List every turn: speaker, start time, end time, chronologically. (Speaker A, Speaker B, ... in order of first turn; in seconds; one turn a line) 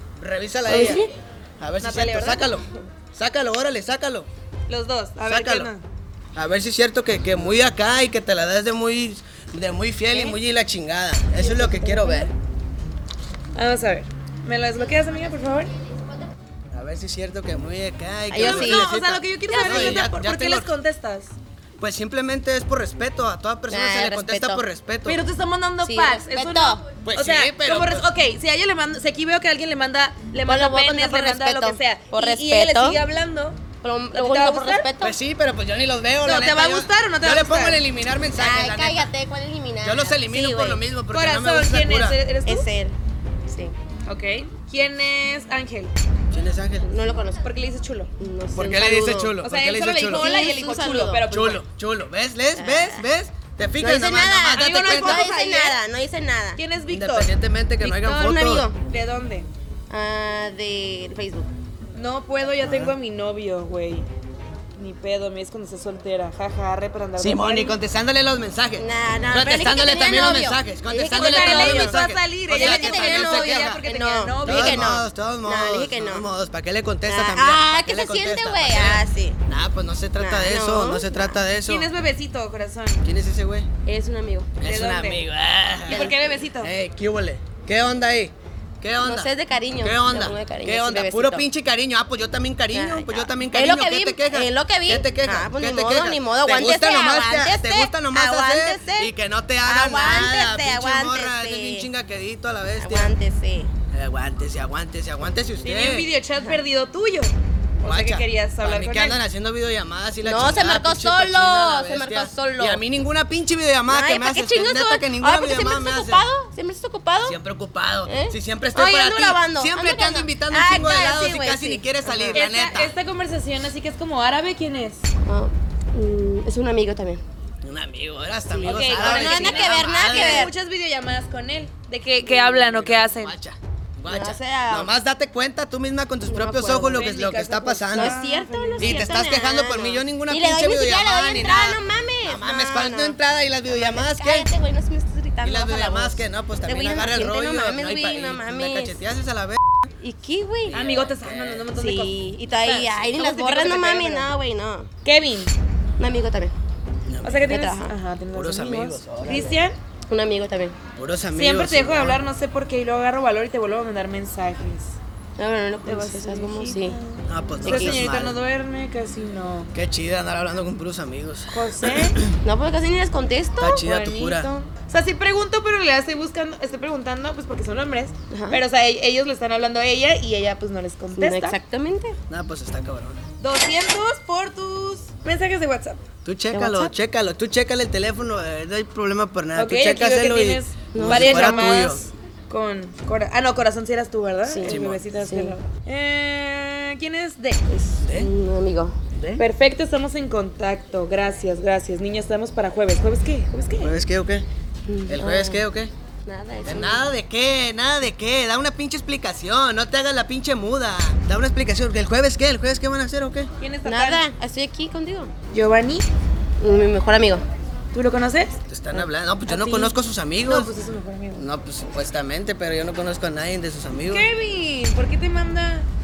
Speaker A: 0.2-1.0
Speaker B: 0.7-1.1
Speaker A: 1.6-4.3
Speaker C: 1.8-2.6
Speaker C: 4.7-5.8
Speaker A: 5.2-5.7
Speaker A: 6.3-12.3
Speaker C: 10.1-10.4
Speaker B: 11.4-12.3
Speaker C: 13.5-15.7
Speaker A: 16.7-20.7
Speaker B: 18.3-18.9
Speaker C: 18.4-21.3
Speaker B: 19.5-20.0
Speaker A: 21.8-25.2
Speaker B: 23.7-24.6
Speaker C: 25.1-33.6
Speaker B: 25.8-26.8
Speaker A: 27.0-28.1
Speaker B: 30.4-33.0
Speaker B: 33.8-35.1
Speaker C: 34.1-34.9
Speaker A: 35.0-39.1
Speaker C: 36.2-37.8
Speaker B: 38.4-40.8
Speaker A: 39.8-42.2
Speaker C: 41.1-42.7
Speaker B: 42.5-43.7
Speaker C: 44.0-45.9
Speaker A: 46.3-46.9
Speaker B: 46.8-47.4
Speaker C: 47.4-48.1
Speaker B: 48.2-49.4
Speaker A: 48.5-50.4
Speaker C: 49.4-51.6
Speaker B: 50.0-51.2
Speaker A: 51.3-55.3
Speaker B: 52.5-53.0
Speaker B: 53.8-56.6
Speaker C: 54.5-55.8
Speaker C: 56.6-58.2
Speaker A: 56.9-58.7
Speaker B: 58.0-58.8
Speaker C: 58.8-59.5
Speaker B: 59.9-61.5
Speaker C: 61.9-64.0
Speaker A: 62.6-62.9
Speaker C: 64.8-67.7
Speaker A: 67.2-73.8
Speaker B: 68.8-72.0
Speaker C: 70.1-70.4
Speaker C: 71.1-74.8
Speaker B: 72.5-76.3
Speaker A: 74.4-81.9
Speaker B: 77.1-79.4
Speaker B: 80.2-81.4
Speaker C: 81.7-83.0
Speaker A: 83.0-83.7
Speaker B: 83.8-84.5
Speaker A: 84.6-103.1
Speaker C: 84.6-85.2
Speaker C: 85.9-86.7
Speaker B: 85.9-86.2
Speaker B: 89.0-91.5
Speaker B: 92.7-99.1
Speaker B: 99.7-101.9
Speaker B: 102.8-103.7
Speaker A: 103.9-106.1
Speaker C: 105.6-109.2
Speaker A: 107.8-116.2
Speaker B: 110.2-112.8
Speaker B: 113.9-117.4
Speaker A: 117.2-122.9
Speaker B: 118.0-122.4
Speaker C: 122.3-125.1
Speaker B: 125.2-127.2
Speaker A: 127.6-130.5
Speaker B: 128.5-130.5
Speaker C: 128.6-133.3
Speaker B: 132.2-132.7
Speaker A: 132.7-138.2
Speaker B: 134.1-134.9
Speaker B: 136.3-137.1
Speaker C: 136.9-139.1
Speaker B: 137.9-143.2
Speaker A: 138.8-144.5
Speaker B: 143.7-148.9
Speaker A: 145.4-149.9
Speaker B: 150.0-150.8
Speaker A: 150.6-151.7
Speaker C: 150.7-154.3
Speaker B: 151.7-154.9
Speaker C: 155.0-155.5
Speaker B: 156.0-156.5
Speaker A: 157.1-157.5
Speaker C: 157.2-159.8
Speaker B: 157.3-157.9
Speaker A: 158.3-159.5
Speaker B: 159.3-159.6
Speaker B: 160.1-160.8
Speaker A: 160.9-162.2
Speaker C: 161.3-164.9
Speaker B: 165.4-166.9
Speaker C: 165.8-169.7
Speaker A: 167.3-168.3
Speaker B: 167.6-168.1
Speaker A: 169.7-172.3
Speaker C: 171.5-172.2
Speaker B: 172.4-173.8
Speaker A: 173.6-174.5
Speaker C: 173.7-181.6
Speaker B: 178.3-178.6
Speaker B: 181.2-182.2
Speaker A: 182.3-183.2
Speaker C: 183.4-186.0
Speaker A: 186.2-192.0
Speaker B: 186.5-186.9
Speaker C: 189.5-197.8
Speaker B: 190.9-191.8
Speaker B: 194.4-195.5
Speaker A: 194.6-195.0
Speaker B: 197.7-198.9
Speaker A: 198.0-198.3
Speaker A: 199.1-199.4
Speaker C: 199.4-203.9
Speaker A: 203.8-204.4
Speaker B: 204.9-205.6
Speaker A: 205.1-205.9
Speaker B: 206.2-207.1
Speaker A: 206.6-213.5
Speaker C: 213.6-214.3
Speaker B: 213.8-215.3
Speaker C: 215.5-216.1
Speaker B: 216.6-217.4
Speaker C: 217.9-221.5
Speaker A: 218.7-220.7
Speaker A: 221.3-224.3
Speaker C: 224.1-225.8